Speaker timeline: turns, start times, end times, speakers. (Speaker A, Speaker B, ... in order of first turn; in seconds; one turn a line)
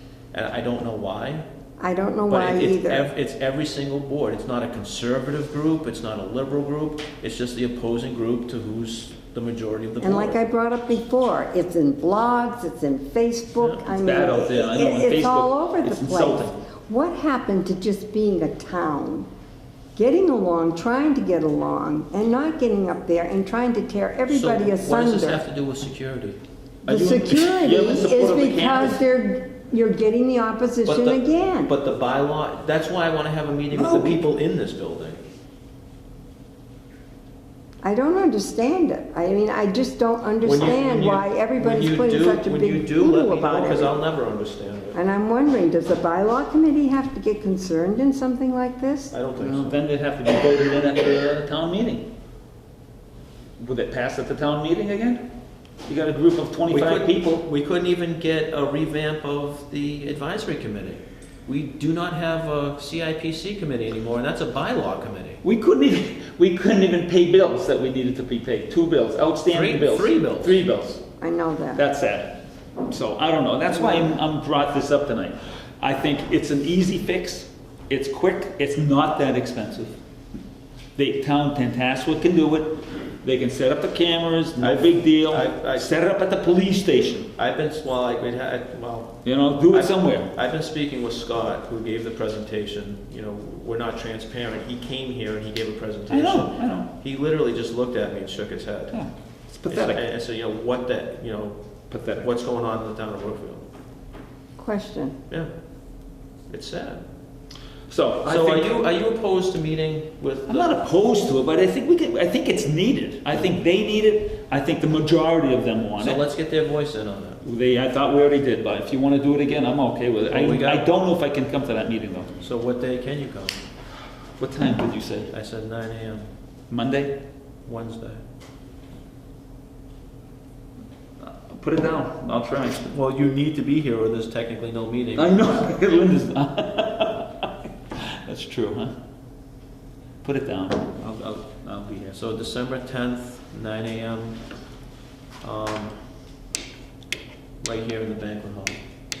Speaker A: 0.3-1.4
Speaker B: 1.8-3.1
Speaker A: 2.3-10.4
Speaker B: 10.0-19.3
Speaker A: 13.6-13.8
Speaker C: 13.8-16.6
Speaker B: 19.9-25.4
Speaker A: 24.3-26.4
Speaker C: 26.8-29.0
Speaker B: 26.9-31.7
Speaker A: 30.8-35.2
Speaker C: 33.7-34.2
Speaker B: 37.8-43.9
Speaker A: 40.4-45.0
Speaker B: 44.9-49.1
Speaker A: 49.1-49.8
Speaker C: 49.4-52.1
Speaker C: 53.6-55.3
Speaker C: 55.8-57.4
Speaker A: 56.7-65.4
Speaker C: 65.4-71.0
Speaker A: 69.5-70.6
Speaker B: 71.2-71.8
Speaker C: 71.7-80.0
Speaker C: 81.0-87.3
Speaker A: 84.6-85.9
Speaker A: 87.3-99.0
Speaker C: 89.2-90.3
Speaker C: 96.1-96.9
Speaker C: 98.9-100.0
Speaker A: 99.7-103.7
Speaker C: 101.9-102.3
Speaker B: 104.6-105.2
Speaker A: 106.5-107.0
Speaker C: 107.9-108.8
Speaker A: 108.2-110.8
Speaker C: 110.5-116.2
Speaker A: 116.0-117.4
Speaker C: 117.4-122.4
Speaker A: 120.3-120.9
Speaker A: 122.4-123.6
Speaker C: 124.4-125.3
Speaker A: 125.3-126.3
Speaker C: 126.7-127.2
Speaker A: 127.6-128.2
Speaker C: 131.2-132.9
Speaker A: 132.9-135.7
Speaker C: 135.2-138.9
Speaker C: 140.2-142.2
Speaker A: 142.1-144.4
Speaker A: 145.4-145.9
Speaker A: 147.6-148.8